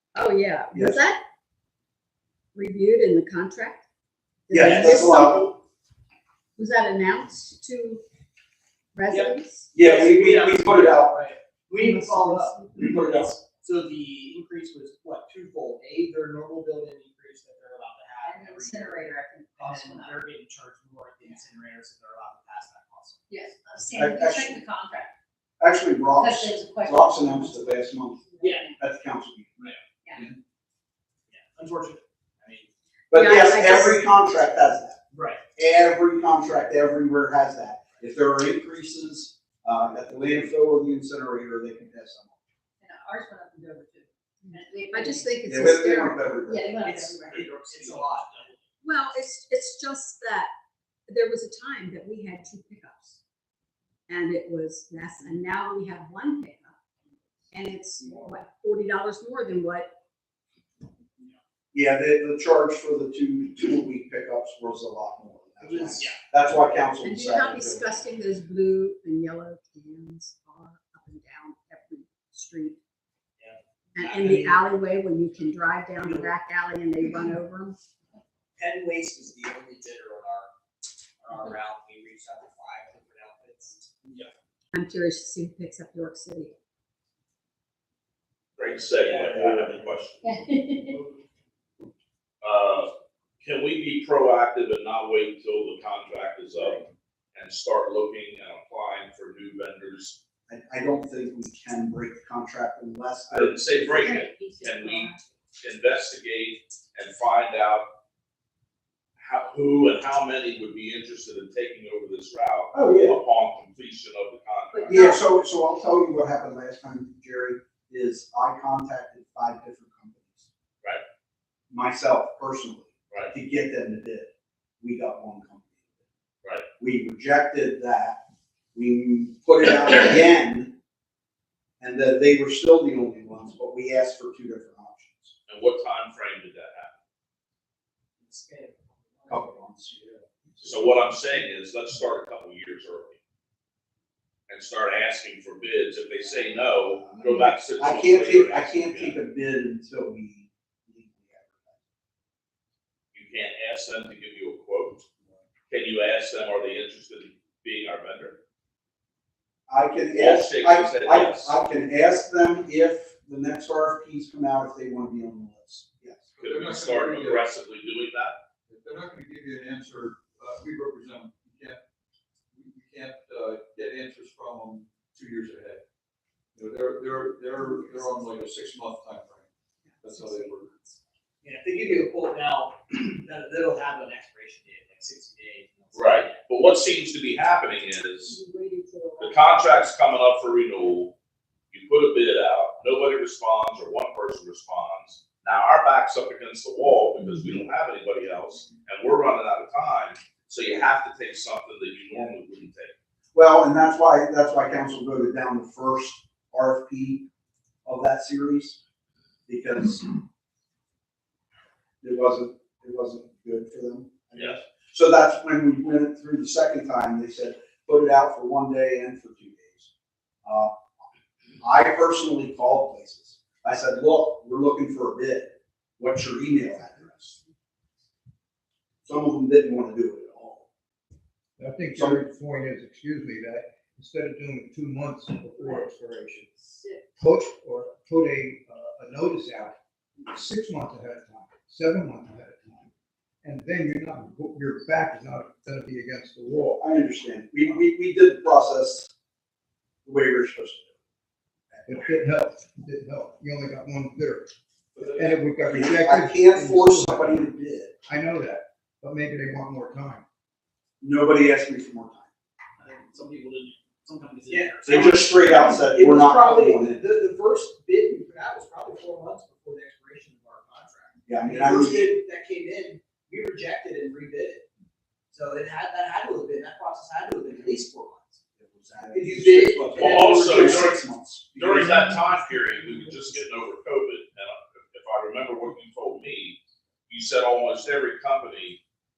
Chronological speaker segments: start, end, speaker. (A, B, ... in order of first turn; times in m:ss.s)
0:00.2-0:01.2 A
0:00.7-0:01.0 B
0:02.6-0:03.8 A
0:04.5-0:05.5 A
0:04.5-0:05.5 B
0:04.6-0:05.0 C
0:06.6-0:08.0 A
0:08.9-0:09.7 A
0:09.1-0:23.4 C
0:09.7-0:11.2 B
0:11.7-0:13.1 A
0:18.2-0:20.3 D
0:23.3-0:25.1 D
0:23.9-0:24.6 B
0:25.6-0:28.3 B
0:26.2-0:27.7 D
0:28.4-0:28.8 D
0:28.4-0:28.8 C
0:28.8-0:29.5 B
0:31.3-0:32.7 C
0:33.1-0:35.0 B
0:33.1-0:34.1 A
0:35.1-0:35.4 C
0:35.6-0:42.4 B
0:42.8-0:45.4 D
0:44.5-0:46.2 A
0:45.4-0:47.3 B
0:46.5-0:48.2 D
0:46.8-0:48.6 C
0:48.8-0:50.5 A
0:51.1-0:53.2 A
0:54.1-0:56.8 A
0:57.5-0:59.9 A
1:01.7-1:07.9 B
1:05.6-1:06.2 C
1:07.0-1:12.8 A
1:13.4-1:14.6 C
1:14.0-1:17.8 A
1:16.0-1:16.3 C
1:18.6-1:20.5 C
1:21.2-1:24.3 C
1:24.7-1:26.5 A
1:28.6-1:30.2 E
1:29.0-1:30.0 C
1:30.2-1:31.0 D
1:32.4-1:40.2 E
1:40.5-1:44.2 B
1:43.3-1:47.9 E
1:44.1-1:45.2 D
1:49.2-1:55.0 E
1:52.7-1:53.2 B
1:54.7-1:55.2 A
1:54.9-2:00.5 B
2:01.7-2:04.3 B
2:04.8-2:05.9 B
2:06.8-2:08.2 B
2:08.7-2:10.7 B
2:11.8-2:15.3 B
2:15.5-2:17.0 E
2:18.2-2:19.6 C
2:19.3-2:20.8 B
2:20.6-2:23.2 E
2:24.5-2:29.2 E
2:26.8-2:31.8 B
2:33.1-2:35.0 E
2:35.7-2:38.4 E
2:39.7-2:46.3 B
2:40.1-2:41.6 E
2:46.4-2:47.4 F
2:46.4-2:48.4 E
2:48.7-2:51.8 F
2:52.5-2:55.8 F
2:56.6-2:59.5 F
2:59.9-3:01.0 A
3:00.0-3:00.7 F
3:01.4-3:06.4 C
3:05.9-3:08.4 E
3:08.3-3:09.8 A
3:09.2-3:11.1 E
3:11.7-3:22.9 E
3:23.3-3:27.3 B
3:27.8-3:28.8 B
3:29.5-3:30.2 B
3:32.0-3:39.9 B
3:40.4-3:40.9 B
3:41.6-3:47.4 B
3:49.0-3:50.6 B
3:51.6-3:56.5 G
3:51.9-3:52.2 B
3:56.8-3:57.0 D
3:57.2-3:59.8 G
4:00.3-4:02.9 G
4:03.4-4:06.8 G
4:06.8-4:09.1 B
4:10.0-4:10.9 B
4:11.9-4:17.4 G
4:15.6-4:17.9 B
4:18.0-4:20.2 G
4:21.0-4:22.3 B
4:22.8-4:34.6 C
4:24.5-4:27.0 B
4:31.3-4:32.2 B
4:35.3-4:38.4 C
4:38.6-4:42.1 B
4:39.1-4:41.0 C
4:40.0-4:41.0 E
4:41.6-4:46.6 E
4:47.1-4:48.8 E